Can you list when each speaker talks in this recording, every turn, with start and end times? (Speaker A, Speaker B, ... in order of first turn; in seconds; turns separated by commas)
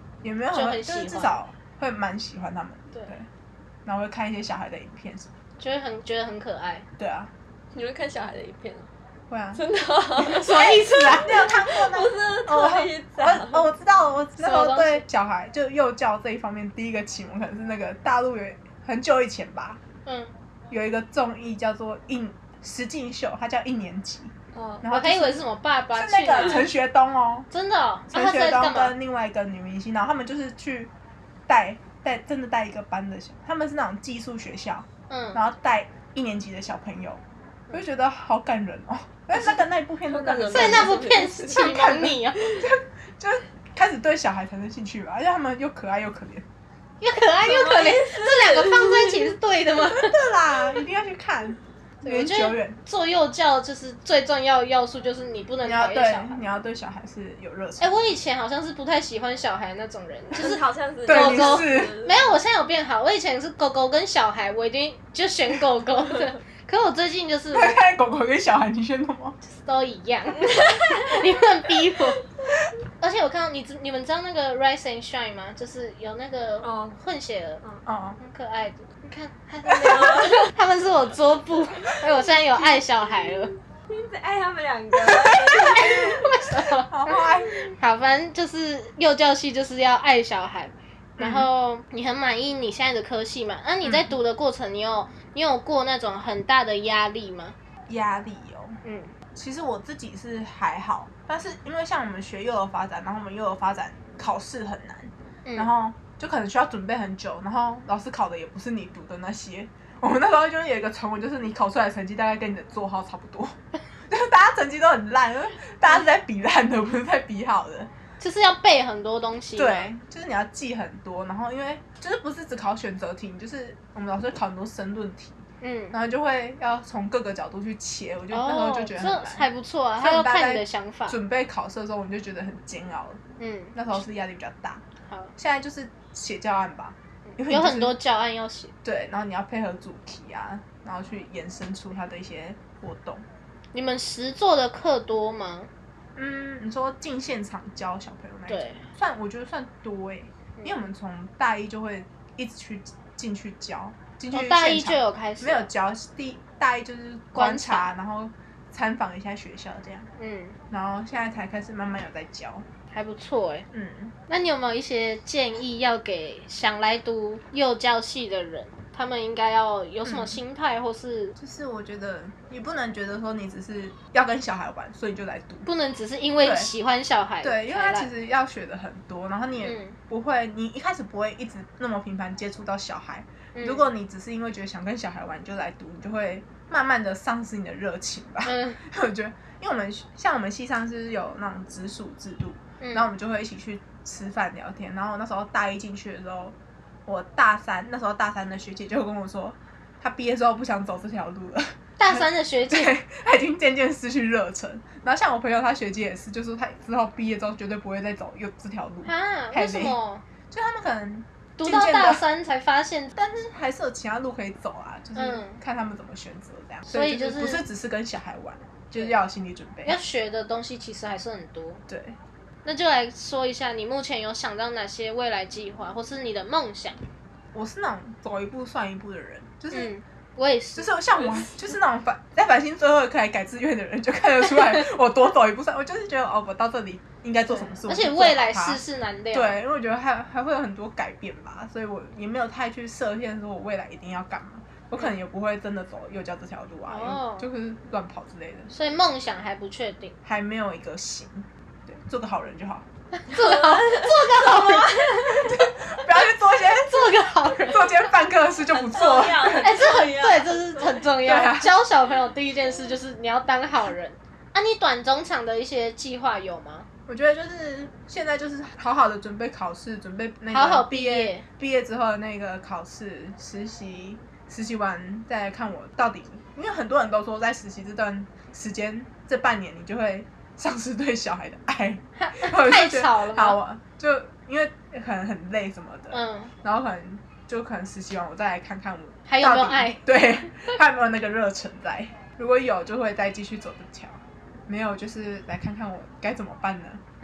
Speaker A: 0.2-3.3, Speaker B: 0.5-1.4, Speaker A: 3.9-5.3, Speaker B: 5.6-6.9, Speaker A: 7.0-7.3, Speaker C: 7.7-8.9, Speaker A: 9.3-9.6, Speaker C: 9.6-13.7, Speaker B: 10.3-11.3, Speaker A: 10.4-19.8, Speaker B: 14.4-15.1, Speaker B: 20.1-20.3, Speaker A: 20.7-25.4, Speaker C: 24.6-24.8, Speaker B: 24.9-26.7, Speaker A: 25.9-27.5, Speaker B: 27.5-28.9, Speaker A: 28.1-30.9, Speaker A: 31.5-46.5, Speaker B: 35.1-35.4, Speaker C: 40.1-41.9, Speaker B: 40.5-42.6, Speaker B: 47.0-50.2, Speaker C: 47.4-49.3, Speaker A: 49.8-52.8, Speaker B: 52.0-56.4, Speaker A: 55.6-58.0, Speaker B: 57.8-67.8, Speaker C: 60.3-62.4, Speaker A: 61.1-62.0, Speaker A: 67.5-69.4, Speaker B: 69.4-72.2, Speaker C: 70.4-71.2, Speaker B: 73.0-77.6, Speaker C: 76.6-77.0, Speaker A: 77.8-78.2, Speaker B: 78.2-83.5, Speaker C: 79.8-80.5, Speaker C: 83.9-86.2, Speaker A: 85.0-86.2, Speaker B: 85.6-97.5, Speaker A: 86.9-87.5, Speaker A: 91.2-91.5, Speaker A: 93.8-94.2, Speaker A: 97.9-98.8, Speaker B: 98.8-99.1, Speaker A: 99.3-113.6, Speaker B: 105.5-105.7, Speaker A: 114.1-117.9, Speaker B: 118.2-119.9, Speaker A: 119.6-129.5, Speaker B: 125.6-126.0, Speaker B: 128.3-131.2, Speaker A: 130.0-133.2, Speaker B: 133.4-133.8, Speaker A: 133.8-134.8, Speaker A: 135.4-138.0, Speaker B: 137.3-138.7, Speaker A: 138.8-143.2, Speaker B: 143.7-145.7, Speaker A: 146.2-160.1, Speaker B: 148.5-148.8, Speaker B: 154.3-155.7, Speaker B: 157.3-157.9, Speaker B: 160.2-160.6, Speaker A: 160.7-162.7, Speaker B: 162.9-163.7, Speaker A: 163.7-164.2, Speaker B: 164.3-171.4, Speaker A: 170.0-170.4, Speaker A: 171.4-175.7, Speaker B: 175.7-178.1, Speaker A: 176.4-176.7, Speaker A: 177.4-210.0, Speaker B: 179.6-180.0, Speaker B: 183.6-183.9, Speaker B: 188.4-188.8, Speaker B: 192.8-193.1, Speaker B: 202.0-202.9, Speaker B: 209.1-210.2, Speaker A: 210.5-212.2, Speaker B: 211.6-213.2, Speaker A: 213.2-220.0, Speaker B: 215.2-215.6, Speaker B: 216.9-217.6, Speaker B: 219.8-221.8, Speaker A: 221.9-222.2, Speaker B: 222.7-227.0, Speaker A: 227.5-229.9, Speaker B: 229.7-230.9, Speaker A: 230.8-248.7, Speaker B: 237.5-239.6, Speaker B: 246.9-247.5, Speaker B: 248.7-250.2, Speaker A: 250.2-252.9, Speaker B: 253.1-255.4, Speaker C: 253.3-255.6, Speaker A: 255.3-257.0, Speaker B: 256.1-258.0, Speaker A: 257.6-259.8, Speaker C: 258.6-261.1, Speaker B: 259.6-266.9, Speaker A: 261.2-261.7, Speaker A: 267.1-297.0, Speaker B: 270.5-271.4, Speaker B: 282.2-283.6, Speaker B: 286.1-286.5, Speaker B: 289.3-290.0